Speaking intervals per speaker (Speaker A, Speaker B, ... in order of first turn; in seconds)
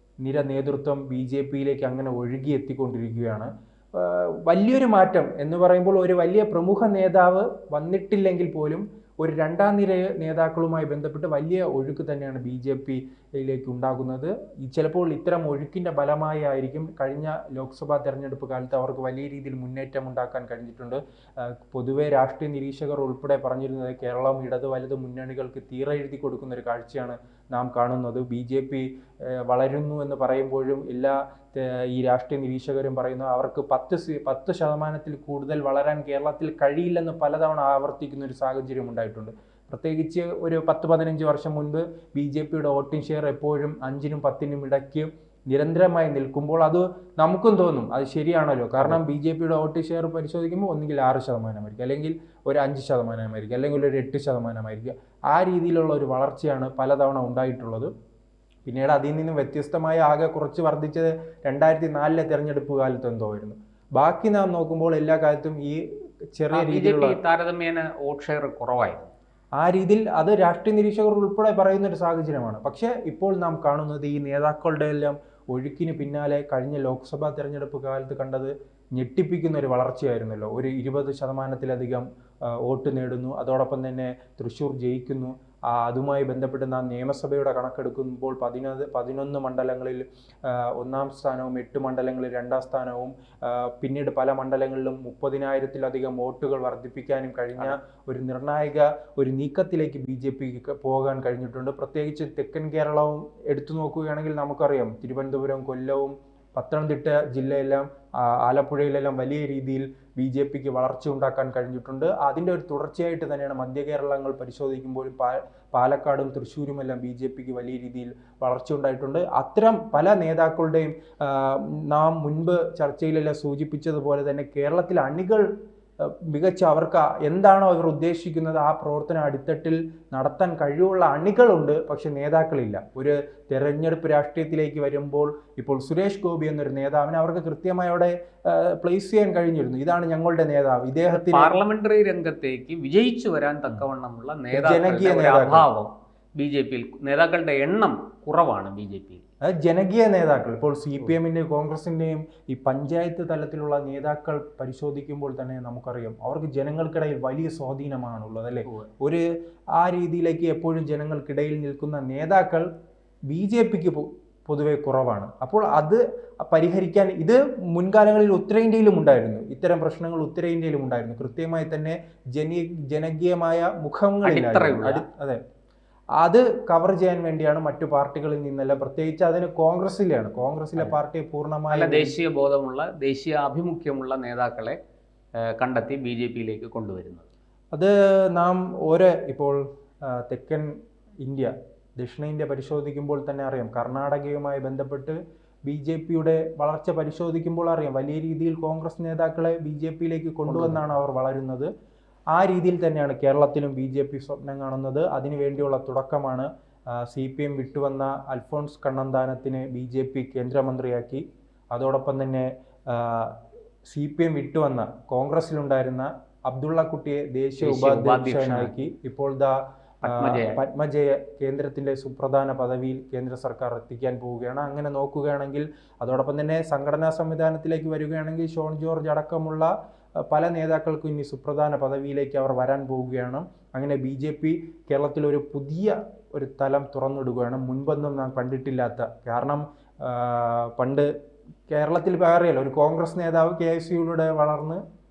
Speaker A: 0.2-57.9, 58.6-65.8, 66.3-67.2, 69.6-125.5, 126.0-141.5, 144.5-145.7, 149.4-159.2, 159.8-162.7, 163.3-175.4, 176.2-182.2, 187.7-190.7, 191.2-201.7, 202.3-229.7, 230.3-241.1, 241.7-244.8
Speaker B: 66.5-69.1, 141.1-149.2, 174.2-175.0, 181.7-184.8, 185.6-187.2, 200.5-200.8, 217.6-218.7, 220.0-220.6